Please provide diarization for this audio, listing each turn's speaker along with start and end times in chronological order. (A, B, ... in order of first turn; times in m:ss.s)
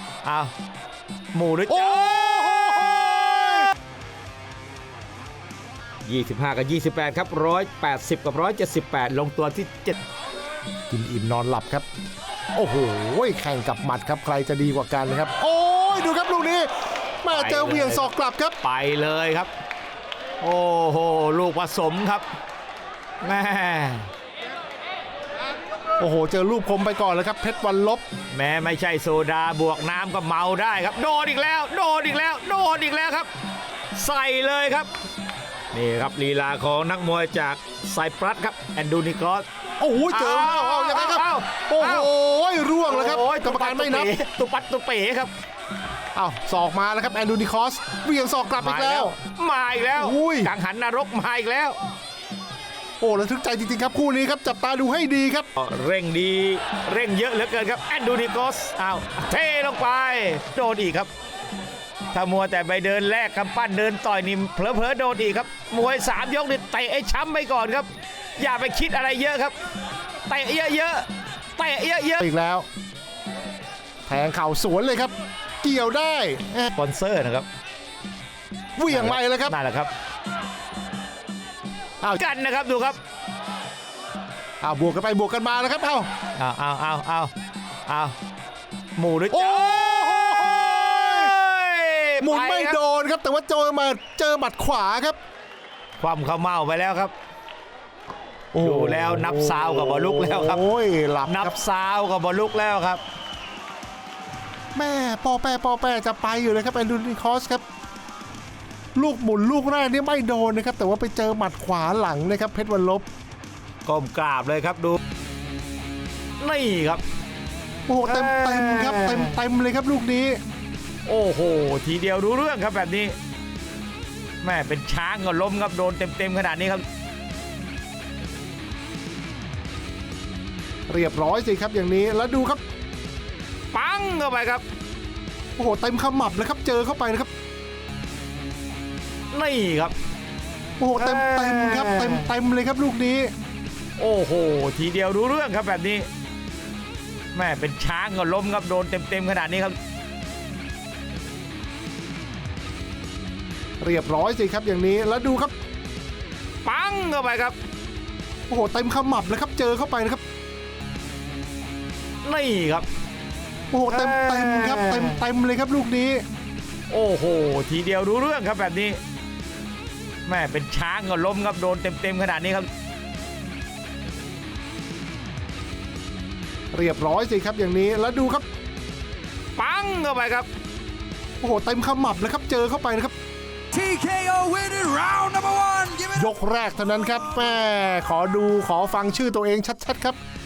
0:00.2-0:00.5 A
0:01.3-0:02.2 A
0:01.7-0:03.7 B
0:06.0-0:10.0 A
0:10.9-0:11.9 B
0:12.6-0:18.6 B
0:17.3-0:18.1 A
0:18.6-0:19.5 A
0:20.4-0:22.2 A
0:23.2-0:24.1 A
0:26.0-0:28.0 B
0:28.3-0:33.3 A
0:33.9-0:34.9 A
0:35.7-0:39.4 A
0:39.8-0:44.2 B
0:40.1-0:42.1 A
0:42.9-0:45.3 A
0:46.2-0:49.2 B
0:48.6-0:51.8 A
0:50.0-0:50.5 B
0:53.0-0:55.5 B
0:55.6-1:01.1 A
1:02.1-1:09.6 A
1:10.3-1:12.3 A
1:12.2-1:12.7 B
1:14.1-1:16.7 B
1:16.8-1:17.5 A
1:18.8-1:19.6 B
1:18.9-1:19.9 A
1:22.2-1:23.0 A
1:24.6-1:26.1 B
1:26.4-1:27.3 A
1:27.9-1:28.2 A
1:29.0-1:30.0 A
1:29.3-1:31.3 B
1:31.0-1:32.8 A
1:32.2-1:35.2 B
1:36.0-1:37.1 A
1:38.5-1:41.5 B
1:38.6-1:40.6 A
1:41.3-1:43.0 A
1:44.8-1:47.6 B
1:49.0-1:53.1 B
1:53.9-1:55.0 A
1:56.4-1:57.0 A
1:57.9-2:00.4 B
1:58.0-1:59.4 A
2:01.1-2:03.2 A
2:04.4-2:06.8 A
2:10.9-2:12.6 B
2:13.7-2:14.6 A
2:15.6-2:17.3 B
2:19.3-2:20.0 A
2:20.8-2:23.3 B
2:21.0-2:22.3 A
2:24.0-2:26.1 A
2:27.3-2:29.8 A
2:33.8-2:35.5 B
2:36.6-2:37.6 A
2:38.5-2:40.2 B
2:42.2-2:42.9 A
2:43.7-2:46.2 B
2:43.9-2:45.2 A
2:46.9-2:49.0 A
2:50.3-2:52.7 A
2:56.7-2:58.4 B
2:59.6-3:00.5 A
3:01.4-3:03.1 B
3:03.7-3:06.2 C
3:06.1-3:10.2 B